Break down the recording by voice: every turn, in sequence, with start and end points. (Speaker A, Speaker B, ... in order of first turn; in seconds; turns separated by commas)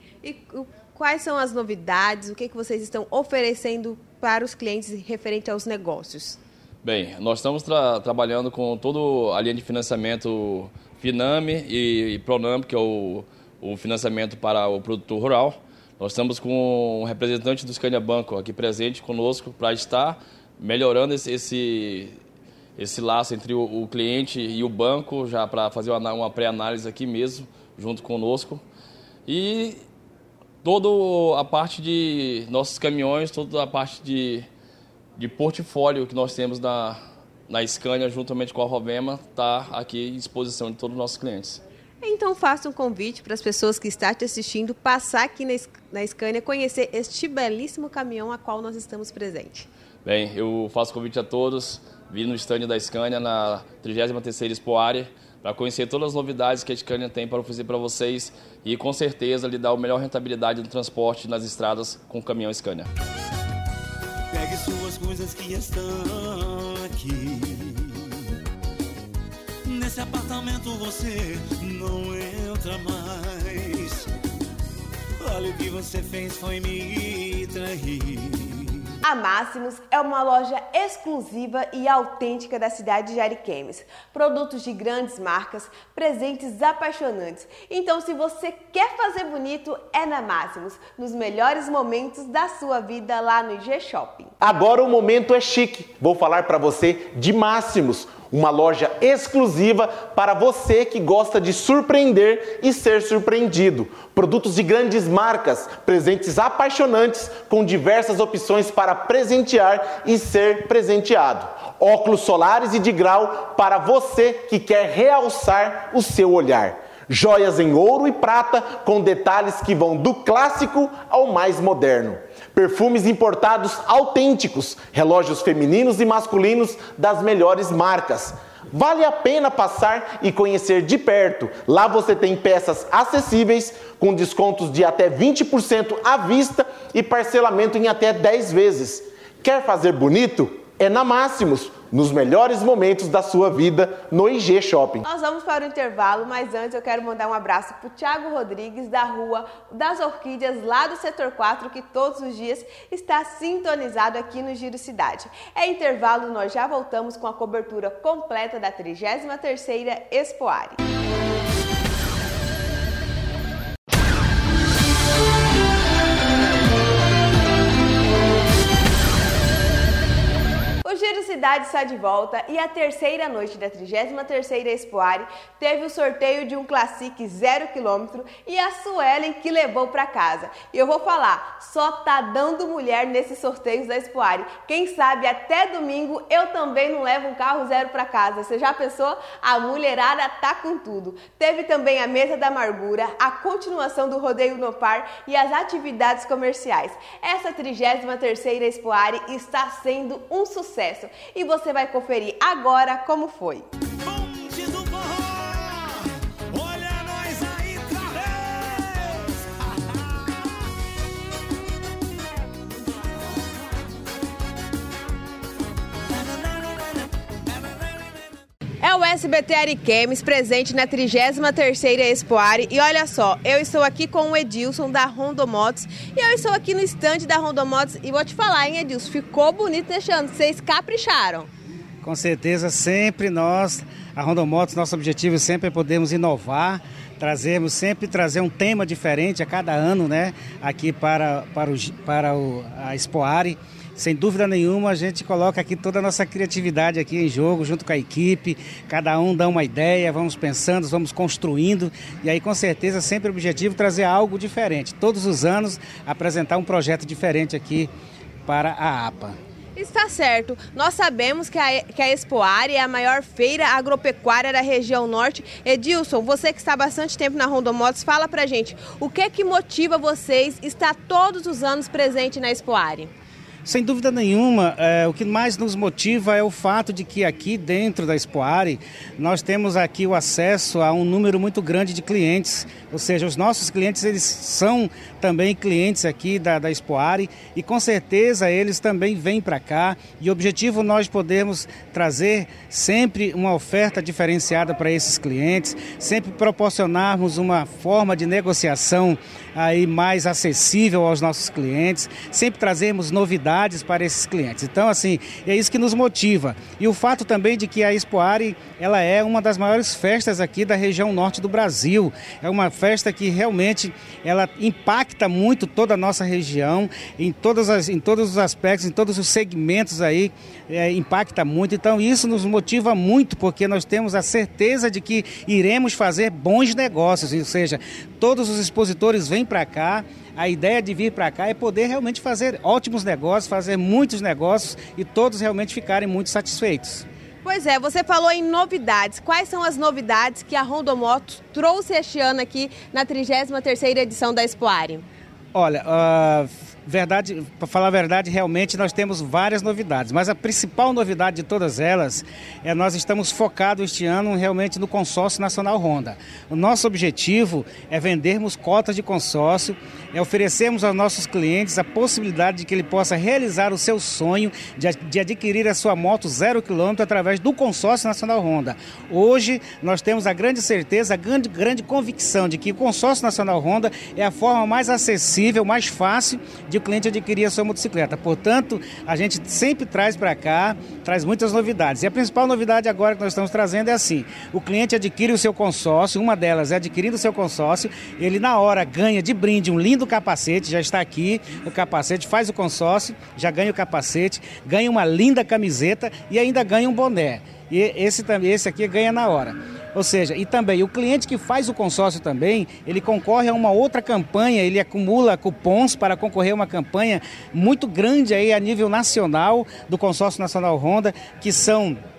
Speaker A: 0.2-6.4, Speaker B: 6.8-22.2, Speaker B: 22.8-28.6, Speaker B: 29.2-29.8, Speaker B: 30.6-34.5, Speaker B: 35.1-41.6, Speaker A: 42.0-49.7, Speaker B: 50.0-62.9, Speaker C: 64.3-68.1, Speaker C: 69.6-74.1, Speaker C: 75.2-78.8, Speaker A: 79.0-94.4, Speaker D: 94.4-145.0, Speaker A: 145.1-160.8, Speaker A: 170.8-203.7, Speaker C: 204.0-210.4, Speaker A: 218.8-231.5, Speaker E: 232.0-257.9, Speaker E: 258.5-259.4, Speaker A: 259.8-273.1, Speaker E: 273.6-337.0, Speaker A: 337.4-345.0, Speaker E: 345.5-412.0